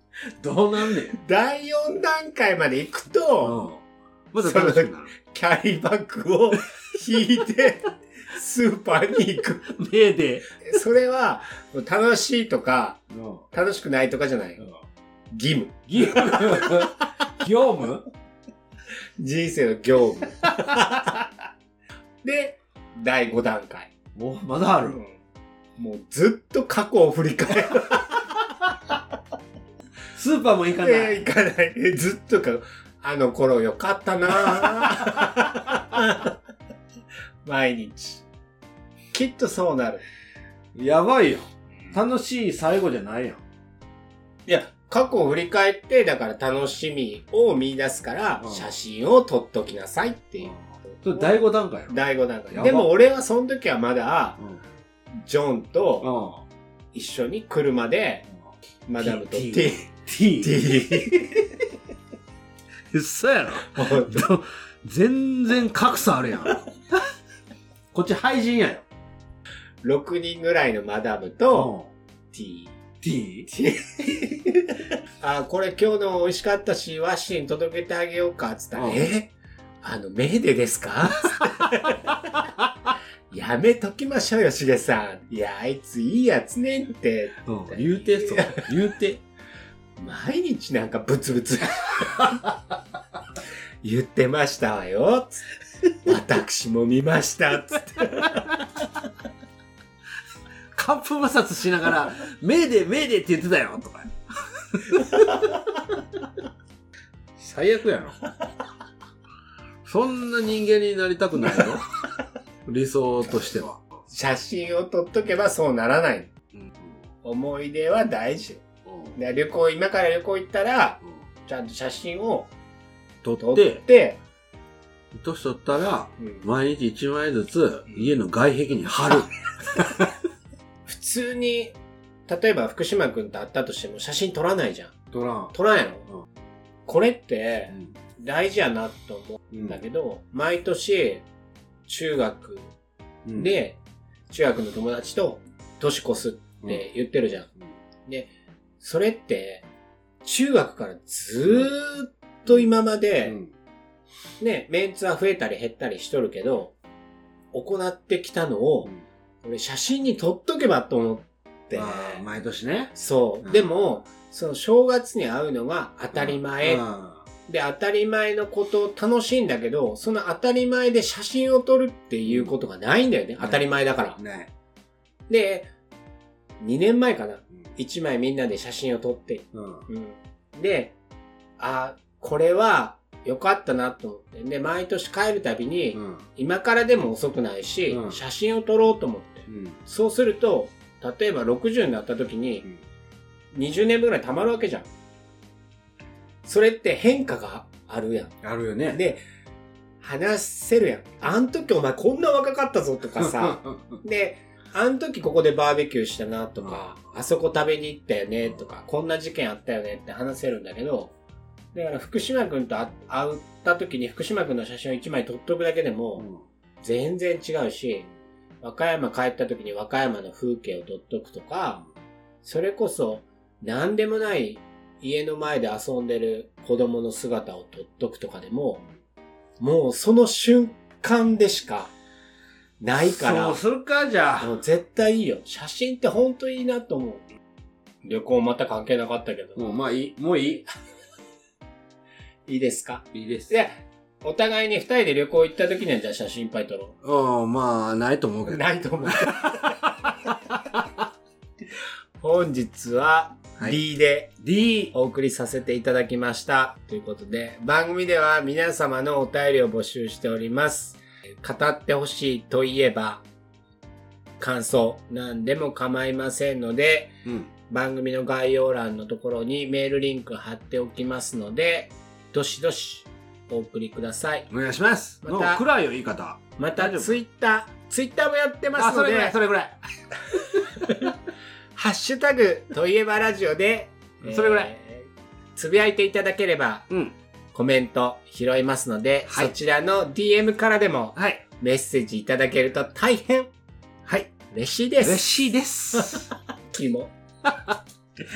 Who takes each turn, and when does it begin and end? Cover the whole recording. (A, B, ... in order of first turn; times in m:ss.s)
0:00.4-0:01.2 A
0:01.1-0:03.7 B
0:03.4-0:05.1 A
0:04.4-0:09.7 B
0:09.7-0:10.4 A
0:10.6-0:13.0 B
0:13.1-0:13.4 A
0:13.5-0:14.6 B
0:15.3-0:17.0 B
0:15.9-0:18.0 A
0:19.2-0:21.2 B
0:20.4-0:21.0 A
0:22.2-0:23.9 B
0:24.1-0:25.0 A
0:24.8-0:25.2 B
0:25.8-0:28.3 B
0:30.1-0:31.2 A
0:30.8-0:36.4 B
0:34.4-0:35.2 A
0:37.4-0:38.2 B
0:39.1-0:40.0 B
0:40.7-0:43.4 A
0:44.5-0:50.5 B
0:48.4-0:48.7 A
0:50.4-0:52.0 A
0:51.1-0:54.4 B
0:52.5-0:52.9 A
0:55.2-0:56.1 B
0:56.0-0:56.4 A
0:56.9-0:58.2 B
0:58.9-0:59.9 B
0:59.0-1:01.3 A
1:00.4-1:01.4 B
1:02.9-1:06.7 A
1:03.6-1:04.3 B
1:07.9-1:08.8 A
1:09.8-1:11.7 B
1:11.5-1:11.9 A
1:12.3-1:12.7 B
1:13.0-1:13.5 A
1:13.5-1:22.2 B
1:18.8-1:19.1 A
1:22.4-1:22.9 A
1:23.3-1:28.7 B
1:27.4-1:29.2 A
1:30.0-1:32.4 B
1:32.2-1:32.5 A
1:33.8-1:38.5 B
1:40.7-1:45.6 A
1:47.4-1:48.2 A
1:49.8-1:51.8 A
1:52.6-1:53.8 A
1:54.1-1:56.3 B
1:56.5-1:57.0 A
1:57.2-1:58.6 B
1:58.8-1:59.1 A
1:59.1-2:02.5 B
2:03.2-2:03.8 A
2:03.4-2:04.2 B
2:05.1-2:10.1 A
2:06.2-2:06.4 B
2:10.8-2:15.0 B
2:15.1-2:15.5 A
2:15.5-2:16.0 B
2:16.9-2:21.2 B
2:21.9-2:22.7 B
2:23.2-2:23.6 A
2:23.3-2:23.8 B
2:24.3-2:27.5 B
2:28.0-2:29.6 B
2:30.2-2:33.4 B
2:33.3-2:33.5 A
2:34.4-2:36.7 B
2:37.5-2:42.2 B
2:41.7-2:43.7 A
2:42.9-2:46.8 B
2:46.1-2:47.2 A
2:47.5-2:54.2 B
2:52.3-2:52.5 A
2:53.4-2:54.5 A
2:55.3-2:55.7 B
2:56.6-3:00.9 B
2:59.5-2:59.8 A
3:01.6-3:12.6 B
3:05.9-3:06.2 A
3:07.9-3:08.2 A
3:09.5-3:09.8 A
3:13.5-3:14.9 B
3:16.4-3:18.4 B
3:18.4-3:19.0 A
3:18.9-3:19.2 B
3:20.0-3:31.1 B
3:23.2-3:24.0 A
3:31.7-3:36.3 B
3:36.2-3:36.4 A
3:36.8-3:38.1 B
3:38.6-3:41.8 B
3:42.4-3:48.8 B
3:49.6-3:51.9 B
3:52.8-3:53.6 B
3:53.0-3:54.5 A
3:54.4-3:57.2 B
3:58.0-3:59.6 B
3:59.6-4:00.6 A
4:02.5-4:07.0 B
4:03.1-4:03.5 A
4:07.0-4:10.1 A
4:08.5-4:09.7 B
4:12.2-4:14.4 B
4:14.4-4:14.9 A
4:14.9-4:23.2 B
4:24.4-4:27.2 B
4:27.7-4:34.5 B
4:34.5-4:37.2 A
4:35.2-4:35.6 B
4:36.6-4:39.3 B
4:38.8-4:39.8 A
4:40.5-4:41.1 B
4:41.7-4:46.9 B
4:44.2-4:44.7 A
4:46.9-4:47.1 A
4:47.5-4:53.5 B
4:51.2-4:51.4 A
4:54.0-4:54.3 A
4:54.5-4:55.3 B
4:55.0-4:56.3 A
4:56.7-4:57.1 B
4:57.5-4:57.7 A